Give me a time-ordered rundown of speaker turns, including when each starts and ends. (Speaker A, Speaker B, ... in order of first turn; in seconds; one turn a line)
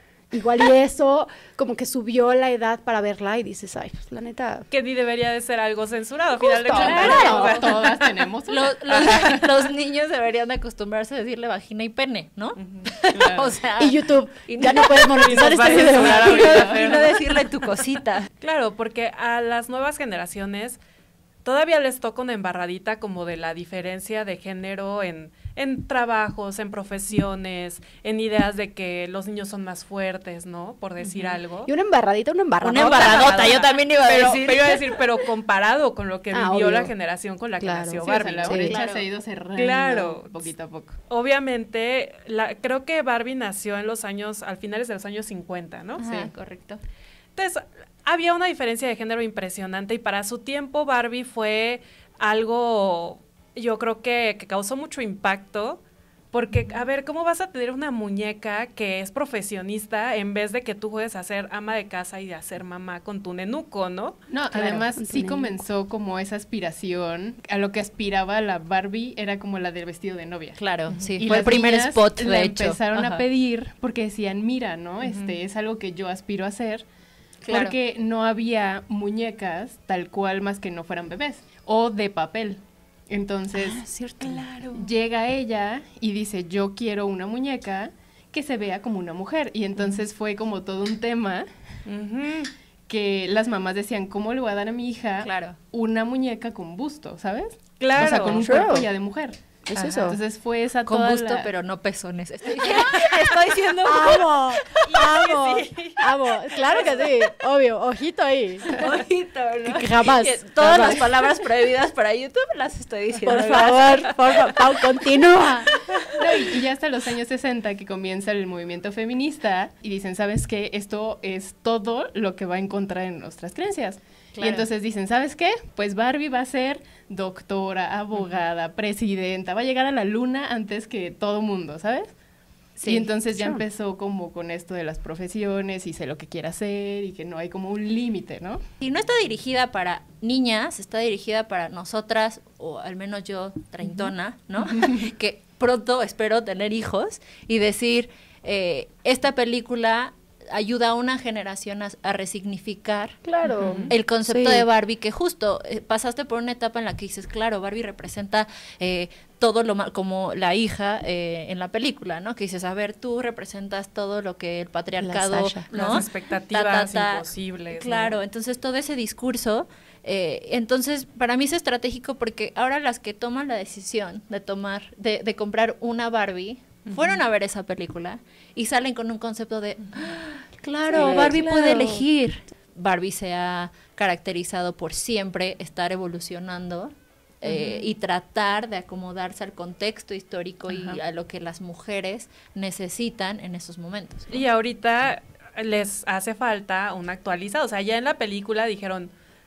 Speaker A: 0.3-4.7
Speaker B: 4.7-7.6
Speaker A: 6.4-7.6
Speaker C: 6.8-9.4
Speaker D: 6.8-7.8
Speaker D: 8.5-18.3
Speaker B: 12.6-12.9
Speaker C: 13.2-13.5
Speaker A: 13.8-16.5
Speaker B: 15.2-17.5
Speaker C: 15.5-17.1
Speaker B: 18.4-20.8
Speaker B: 21.4-31.7
Speaker A: 31.6-33.5
Speaker D: 32.6-35.0
Speaker B: 32.9-38.9
Speaker A: 36.3-36.9
Speaker A: 37.6-38.7
Speaker C: 38.0-41.0
Speaker D: 38.5-39.0
Speaker B: 39.5-40.5
Speaker B: 41.1-46.0
Speaker D: 46.0-46.8
Speaker C: 46.0-46.3
Speaker B: 47.4-55.8
Speaker B: 56.3-64.2
Speaker C: 64.3-70.7
Speaker A: 64.5-65.5
Speaker D: 64.6-64.8
Speaker D: 70.6-73.2
Speaker B: 70.9-71.2
Speaker C: 71.2-76.8
Speaker B: 75.0-75.4
Speaker D: 77.4-77.8
Speaker C: 77.5-83.8
Speaker A: 83.6-84.5
Speaker B: 84.2-84.8
Speaker C: 84.7-91.5
Speaker B: 91.9-92.5
Speaker C: 92.9-101.5
Speaker D: 95.2-95.6
Speaker B: 97.8-98.7
Speaker A: 98.0-98.9
Speaker A: 99.7-100.2
Speaker D: 99.7-100.1
Speaker D: 100.8-105.1
Speaker A: 103.8-108.7
Speaker B: 104.9-106.0
Speaker D: 108.7-114.9
Speaker A: 109.6-111.0
Speaker A: 113.2-115.7
Speaker C: 116.2-132.1
Speaker D: 124.4-124.7
Speaker D: 132.8-133.1
Speaker C: 132.9-138.6
Speaker A: 133.3-133.6
Speaker D: 138.8-153.3
Speaker A: 153.3-154.6
Speaker B: 153.7-153.9
Speaker D: 153.9-194.4
Speaker A: 165.0-165.7
Speaker B: 165.7-168.2
Speaker B: 176.9-177.2
Speaker A: 180.9-182.0
Speaker B: 194.3-199.1